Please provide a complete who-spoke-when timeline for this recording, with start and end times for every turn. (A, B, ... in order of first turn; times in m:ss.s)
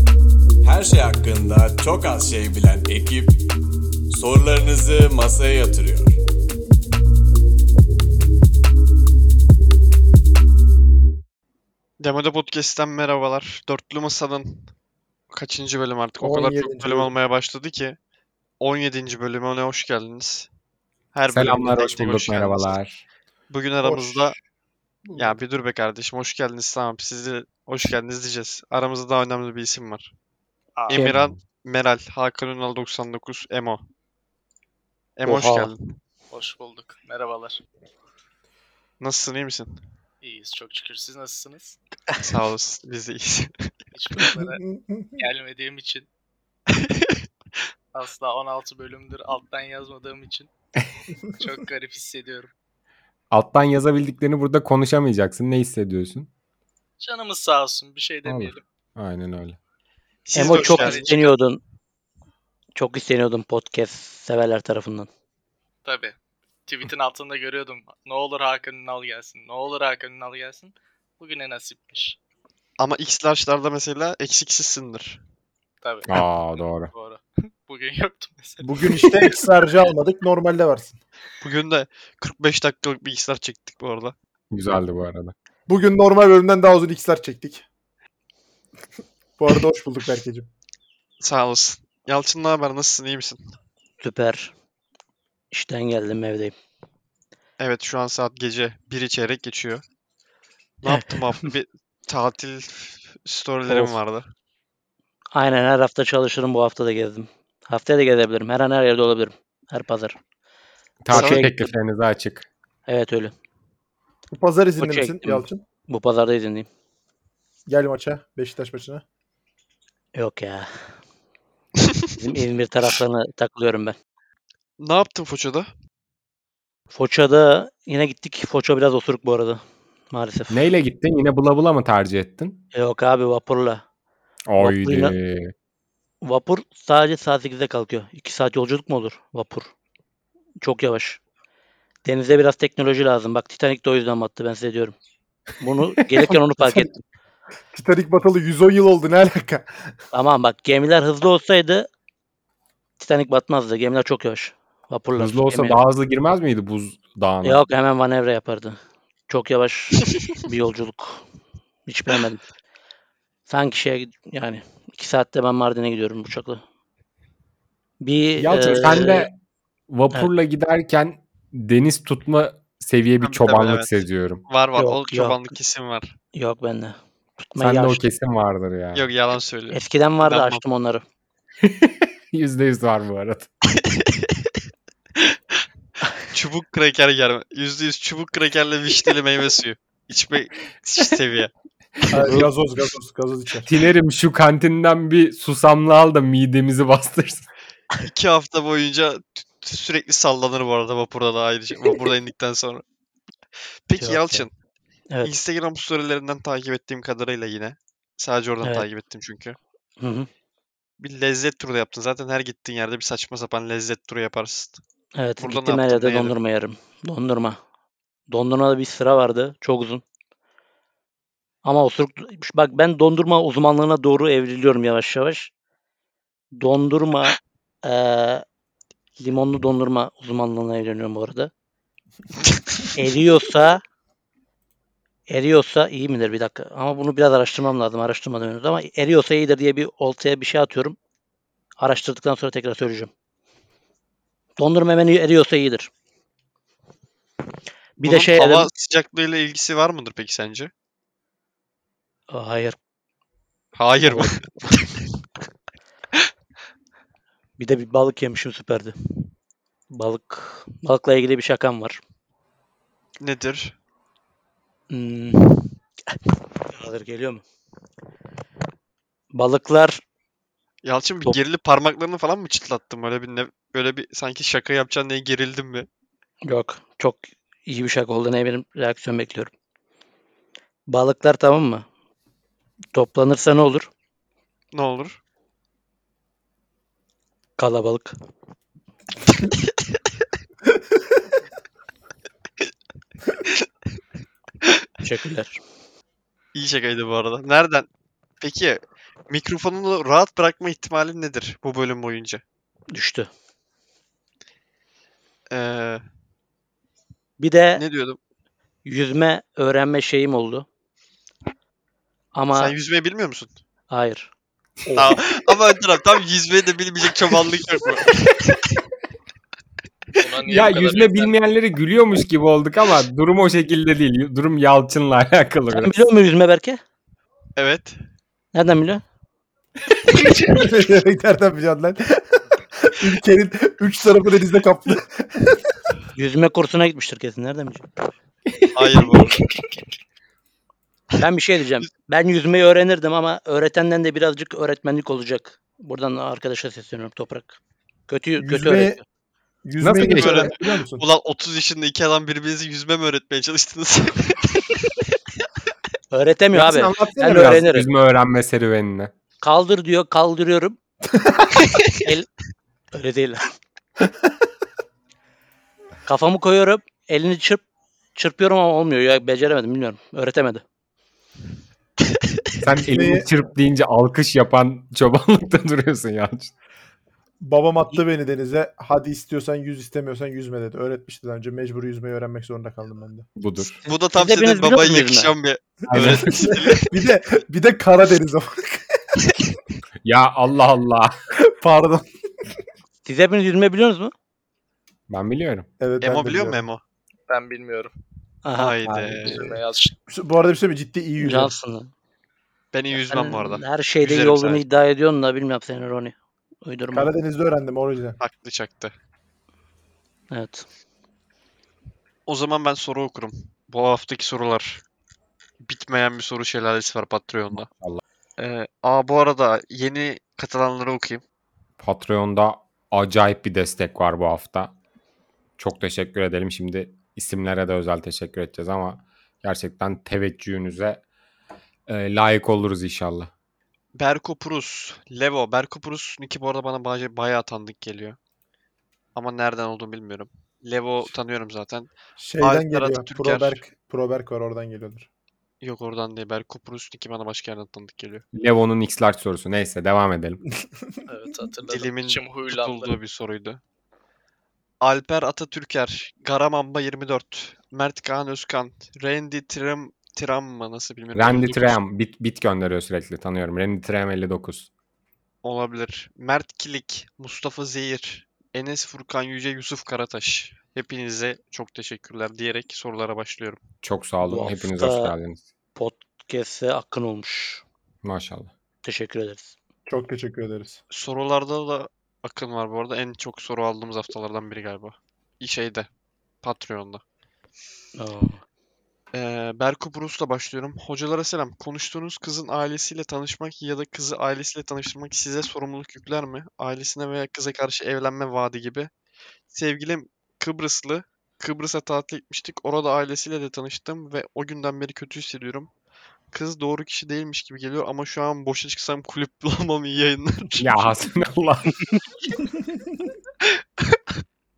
0:00.6-0:03.4 A
0:04.1-0:06.2 A
0:12.0-0:14.7 B
0:15.3-0:18.0 B
0:16.2-0:17.1 C
0:18.6-0:20.5 B
0:21.1-0:22.8 B
0:21.3-0:23.0 D
0:23.5-0:24.4 B
0:23.8-0:24.4 C
0:25.0-0:25.4 C
0:25.2-0:30.1 B
0:30.8-0:31.1 E
0:30.9-0:33.8 B
0:31.1-0:31.4 D
0:35.2-0:35.9 B
0:35.2-0:35.7 F
0:36.3-0:37.6 E
0:39.0-0:39.8 B
0:40.2-0:41.8 E
0:42.2-0:43.7 B
0:43.9-0:44.6 E
0:44.2-0:45.2 C
0:45.2-0:46.1 E
0:46.8-0:47.2 B
0:47.9-0:50.5 E
0:51.4-0:52.5 E
0:53.3-0:56.3 D
0:57.0-0:58.6 E
0:58.2-0:59.6 D
1:00.3-1:01.2 B
1:00.3-1:01.3 E
1:00.3-1:01.6 F
1:02.7-1:05.1 F
1:05.8-1:06.2 E
1:06.7-1:12.2 E
1:12.8-1:15.2 B
1:15.8-1:19.4 E
1:16.0-1:16.9 D
1:18.6-1:21.0 C
1:21.4-1:24.1 B
1:24.5-1:25.3 D
1:25.7-1:27.6 C
1:29.4-1:30.5 C
1:31.2-1:33.5 B
1:34.0-1:34.5 F
1:35.5-1:36.5 F
1:37.6-1:39.8 B
1:40.8-1:44.2 B
1:45.3-1:50.2 F
1:51.0-1:52.5 D
1:51.1-1:51.6 F
1:51.1-1:51.5 B
1:52.9-1:53.3 F
1:54.3-1:55.6 C
1:54.8-1:56.7 F
1:57.7-1:59.0 C
2:00.1-2:00.7 F
2:02.2-2:04.0 F
2:04.8-2:05.7 B
2:06.9-2:10.7 F
2:10.5-2:12.6 D
2:12.7-2:13.8 F
2:14.5-2:15.5 D
2:14.6-2:15.1 F
2:16.2-2:19.7 F
2:20.6-2:21.2 F
2:22.0-2:24.9 F
2:25.6-2:27.0 F
2:27.7-2:29.7 C
2:30.1-2:31.9 F
2:33.0-2:35.8 F
2:35.2-2:37.6 D
2:37.4-2:38.8 F
2:39.3-2:41.2 F
2:41.9-2:42.4 F
2:43.5-2:46.6 F
2:48.0-2:49.3 F
2:48.4-2:49.4 D
2:49.9-2:54.4 D
2:53.2-2:53.9 B
2:54.5-2:56.1 B
2:54.8-2:55.4 F
2:56.3-2:58.0 F
2:57.6-2:59.1 D
2:58.9-3:00.6 B
2:59.7-3:01.0 F
3:01.6-3:03.5 D
3:03.8-3:04.4 B
3:06.3-3:11.5 B
3:12.0-3:12.4 B
3:12.1-3:13.7 C
3:13.6-3:17.5 D
3:18.0-3:22.8 B
3:23.9-3:24.5 B
3:24.0-3:24.4 F
3:25.1-3:25.3 F
3:25.2-3:29.6 B
3:30.0-3:30.3 F
3:31.0-3:34.8 B
3:35.2-3:37.6 F
3:35.4-3:36.3 B
3:38.3-3:40.0 F
3:41.6-3:45.5 F
3:46.6-3:48.4 F
3:49.2-3:51.5 F
3:52.9-3:53.8 F
3:55.3-4:01.0 F
4:01.8-4:03.1 F
4:04.6-4:05.9 F
4:08.0-4:08.7 F
4:08.0-4:10.7 B
4:12.3-4:12.8 F
4:13.7-4:15.0 B
4:14.0-4:14.3 F
4:17.6-4:18.9 F
4:19.9-4:22.0 F
4:23.2-4:23.8 B
4:24.9-4:25.7 F
4:26.7-4:27.4 F
4:29.3-4:30.0 F
4:30.8-4:35.9 B
4:36.4-4:39.5 F
4:40.9-4:41.8 F
4:42.9-4:43.9 F
4:44.7-4:45.2 B
4:47.6-4:48.1 F
4:55.0-4:55.6 F
4:56.5-4:57.9 B
4:58.4-5:02.4 B
5:02.9-5:03.3 F
5:05.5-5:06.0 B
5:07.4-5:07.8 F
5:07.8-5:08.2 B
5:08.8-5:10.6 F
5:12.3-5:12.7 F
5:12.5-5:13.5 B
5:13.9-5:14.3 F
5:14.9-5:15.2 C
5:15.0-5:18.5 B
5:20.2-5:21.3 E
5:20.4-5:25.9 D
5:25.7-5:26.8 F
5:27.6-5:28.0 B
5:28.5-5:29.0 F
5:30.5-5:35.6 C
5:36.1-5:37.9 F
5:38.7-5:39.4 B
5:39.5-5:39.8 E
5:41.2-5:47.6 F
5:48.1-5:49.0 F
5:48.4-5:49.0 C
5:49.6-5:51.0 C
5:49.8-5:50.5 D
5:50.0-5:55.1 B
5:56.1-5:57.9 F
5:56.5-5:59.1 D
5:59.4-6:00.8 F
6:01.9-6:02.3 F
6:02.9-6:03.5 F
6:06.0-6:07.6 F
6:08.1-6:10.6 F
6:12.6-6:13.3 C
6:12.6-6:16.5 D
6:17.4-6:23.3 C
6:23.4-6:23.8 D
6:23.8-6:25.3 F
6:23.9-6:26.9 B
6:25.9-6:26.6 D
6:25.9-6:29.3 C
6:30.0-6:31.2 D
6:31.5-6:32.1 C
6:33.0-6:34.1 F
6:35.1-6:35.7 D
6:35.8-6:36.6 C
6:36.0-6:36.8 B
6:37.3-6:37.9 E
6:38.4-6:38.8 F
6:38.5-6:39.5 B
6:38.8-6:39.2 D
6:39.3-6:39.9 E
6:39.3-6:41.6 C
6:41.2-6:41.9 F
6:42.7-6:44.6 B
6:42.9-6:47.1 F
6:46.9-6:48.2 C
6:48.2-6:48.9 B
6:50.3-6:50.6 F
6:52.3-6:54.8 B
6:55.6-6:57.7 B
6:57.7-6:58.0 D
6:58.4-7:01.2 B
7:01.8-7:04.8 D
7:05.6-7:11.0 D
7:11.9-7:13.3 D
7:14.0-7:18.2 B
7:19.1-7:23.6 B
7:22.2-7:25.1 C
7:25.6-7:28.2 B
7:28.3-7:30.4 D
7:31.1-7:32.9 E
7:31.7-7:33.6 B
7:34.8-7:41.8 B
7:41.1-7:44.7 D
7:45.4-7:53.6 B
7:53.8-7:55.4 D
7:54.2-7:55.1 F
7:55.8-7:57.6 F
7:58.0-7:58.5 D
7:58.8-7:59.5 F
7:59.9-8:00.8 C
8:00.9-8:05.9 B
8:06.4-8:07.0 B
8:08.0-8:08.4 F
8:09.1-8:18.9 B
8:19.5-8:25.7 B
8:26.3-8:31.1 B
8:30.6-8:31.8 D